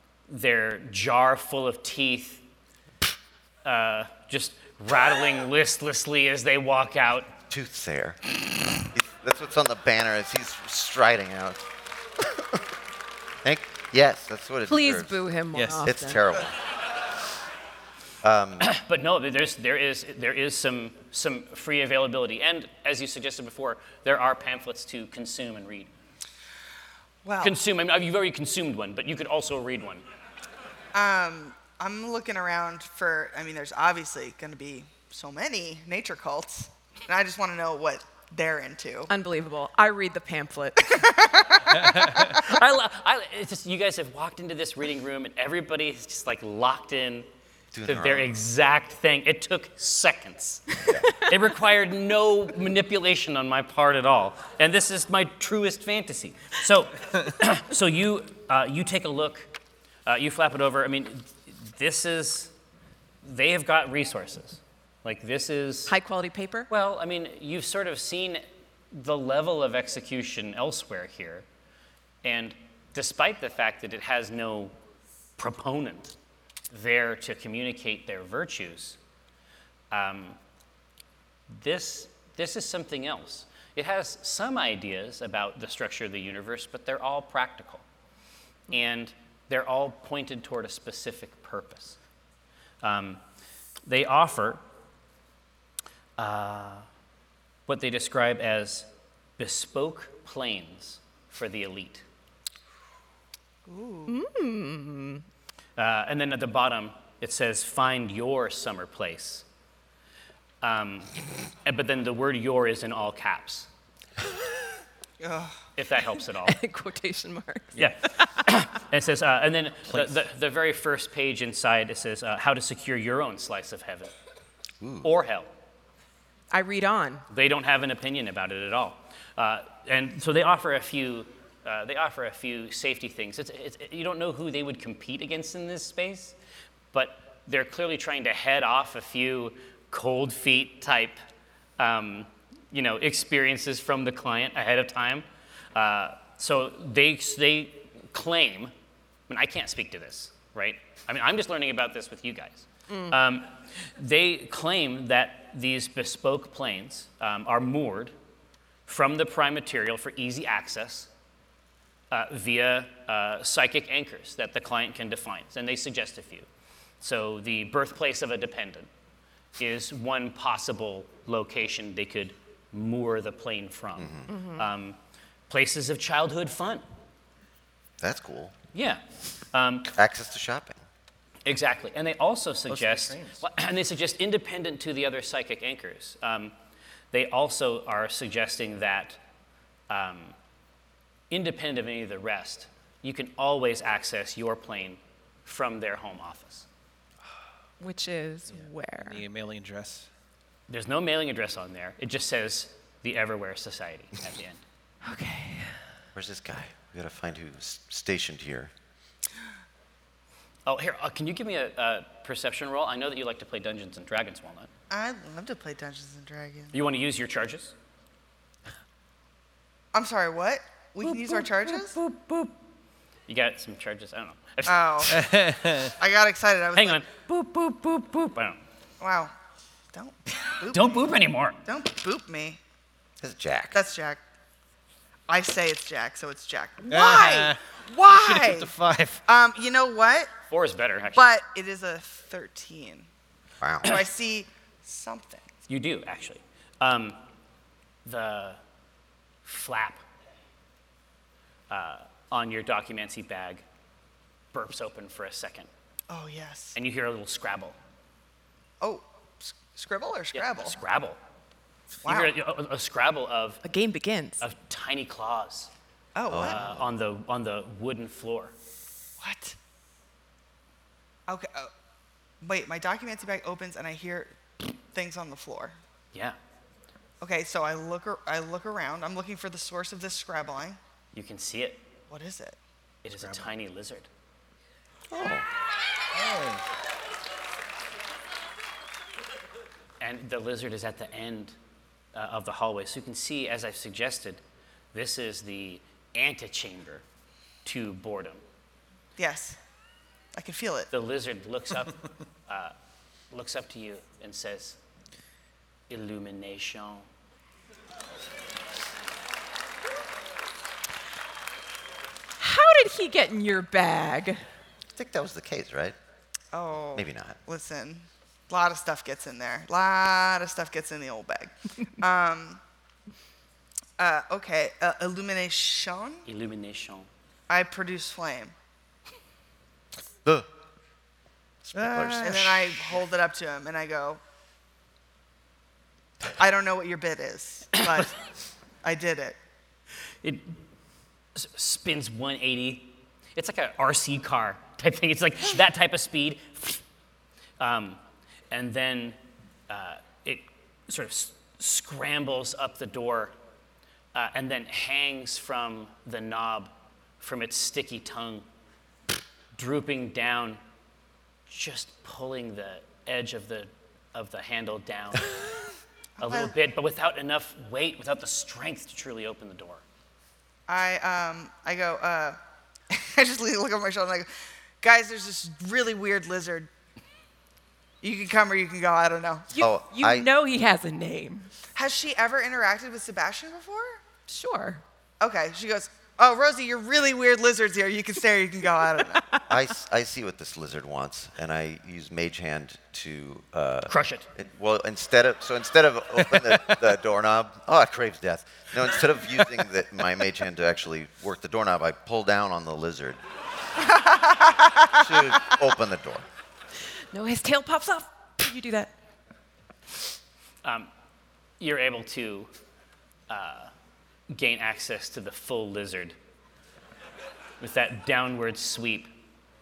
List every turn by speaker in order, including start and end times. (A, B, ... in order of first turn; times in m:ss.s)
0:00.3-0:02.4 A
0:03.6-0:07.3 A
0:07.5-0:08.2 B
0:08.8-0:11.6 B
0:12.2-0:12.6 B
0:13.4-0:15.1 B
0:14.7-0:16.2 C
0:15.5-0:15.9 D
0:15.8-0:16.6 B
0:18.2-0:18.7 B
0:18.6-0:25.9 A
0:27.2-0:27.5 E
0:27.4-0:30.0 A
0:30.9-0:39.1 E
0:39.1-0:41.0 C
0:40.8-0:42.1 E
0:41.7-0:42.3 D
0:42.1-0:47.3 A
0:47.7-0:48.3 B
0:47.8-0:59.5 A
1:00.0-1:02.5 A
1:03.2-1:05.9 A
1:05.9-1:06.7 C
1:06.7-1:11.4 A
1:12.2-1:14.7 A
1:15.4-1:16.1 A
1:16.7-1:19.0 A
1:19.9-1:20.4 A
1:21.5-1:27.8 A
1:28.7-1:32.0 A
1:32.8-1:33.2 A
1:33.8-1:34.6 A
1:36.2-1:36.8 A
1:37.7-1:38.9 A
1:39.4-1:42.0 A
1:43.6-1:44.2 E
1:44.1-1:45.2 C
1:45.8-1:49.4 A
1:50.6-1:53.7 A
1:55.2-1:55.6 E
1:55.8-1:56.6 A
1:56.4-1:58.4 C
1:57.8-2:04.1 A
2:04.8-2:05.1 B
2:05.0-2:05.5 A
2:06.5-2:07.2 C
2:07.3-2:16.3 A
2:16.9-2:21.2 A
2:21.8-2:28.7 A
2:29.3-2:38.1 A
2:32.9-2:33.1 C
2:38.8-2:41.1 A
2:42.1-2:46.5 A
2:47.0-2:48.9 A
2:49.6-2:55.0 A
2:54.0-2:54.3 B
2:54.3-2:54.6 C
2:55.5-2:56.8 A
2:58.0-2:58.5 B
2:58.7-2:59.0 A
2:59.5-2:59.9 A
2:59.9-3:00.8 B
3:01.4-3:06.5 A
3:02.7-3:03.4 D
3:07.1-3:09.2 A
3:09.9-3:10.3 A
3:11.3-3:16.7 A
3:17.8-3:19.2 C
3:18.5-3:20.1 D
3:20.7-3:24.6 A
3:25.0-3:25.8 C
3:26.1-3:28.7 B
3:30.6-3:34.7 A
3:34.9-3:36.7 E
3:36.7-3:37.7 A
3:39.9-3:42.0 E
3:41.0-3:42.5 A
3:43.3-3:45.2 A
3:44.6-3:45.2 E
3:45.1-3:45.9 D
3:46.0-3:47.0 E
3:46.8-3:48.6 A
3:49.0-3:49.3 E
3:49.9-3:51.0 E
3:50.6-3:51.6 A
3:51.6-3:52.6 E
3:53.2-3:53.8 B
3:53.7-3:54.2 E
3:55.3-3:58.7 E
3:56.9-3:59.2 D
3:59.2-4:00.3 E
4:00.5-4:01.3 A
4:01.2-4:03.1 E
4:03.6-4:04.0 B
4:03.8-4:05.4 E
4:05.7-4:07.2 A
4:08.0-4:08.6 A
4:09.4-4:10.0 A
4:11.7-4:13.6 A
4:14.5-4:15.7 A
4:16.1-4:16.8 E
4:16.7-4:17.8 A
4:18.8-4:20.8 E
4:20.3-4:21.2 A
4:22.0-4:22.3 E
4:22.0-4:23.6 A
4:23.6-4:24.4 C
4:24.4-4:25.7 A
4:26.1-4:26.6 E
4:26.3-4:26.8 B
4:26.4-4:28.5 A
4:29.2-4:29.6 E
4:31.3-4:31.7 E
4:32.4-4:35.8 E
4:37.2-4:40.8 E
4:41.1-4:41.9 A
4:42.1-4:42.6 E
4:43.0-4:44.1 A
4:43.2-4:43.5 D
4:45.1-4:45.4 B
4:46.1-4:46.6 D
4:50.0-4:51.6 A
4:52.1-4:54.4 A
4:54.9-4:57.0 A
4:57.6-4:58.4 A
4:59.2-4:59.6 E
5:00.3-5:00.9 E
5:00.9-5:02.7 A
5:03.3-5:04.8 A
5:05.9-5:07.1 A
5:12.4-5:14.4 C
5:15.0-5:16.0 B
5:16.5-5:22.6 E
5:16.9-5:17.4 B
5:24.0-5:26.2 E
5:26.2-5:27.1 A
5:27.5-5:28.5 E
5:31.6-5:32.8 B
5:31.7-5:32.6 D
5:32.2-5:34.2 E
5:36.4-5:38.2 E
5:38.8-5:39.4 E
5:40.2-5:40.6 A
5:41.3-5:46.8 A
5:47.6-5:48.0 A
5:48.5-5:49.2 A
5:49.7-5:53.3 A
5:54.1-5:58.4 A
5:59.5-6:00.6 A
6:01.5-6:05.3 A
6:06.2-6:09.8 A
6:06.2-6:06.5 E
6:10.7-6:12.4 E
6:12.9-6:16.7 E
6:18.0-6:19.5 E
6:19.5-6:21.5 C
6:19.6-6:20.3 B
6:21.7-6:24.0 E
6:24.3-6:24.8 C
6:25.2-6:29.3 E
6:29.5-6:43.2 B
6:33.9-6:34.3 A
6:43.8-6:45.1 E
6:45.0-6:46.2 B
6:47.1-6:48.9 C
6:50.6-6:50.9 A
6:51.6-6:52.5 A
6:53.3-6:53.7 A
6:54.3-6:56.2 A
6:57.6-6:59.1 A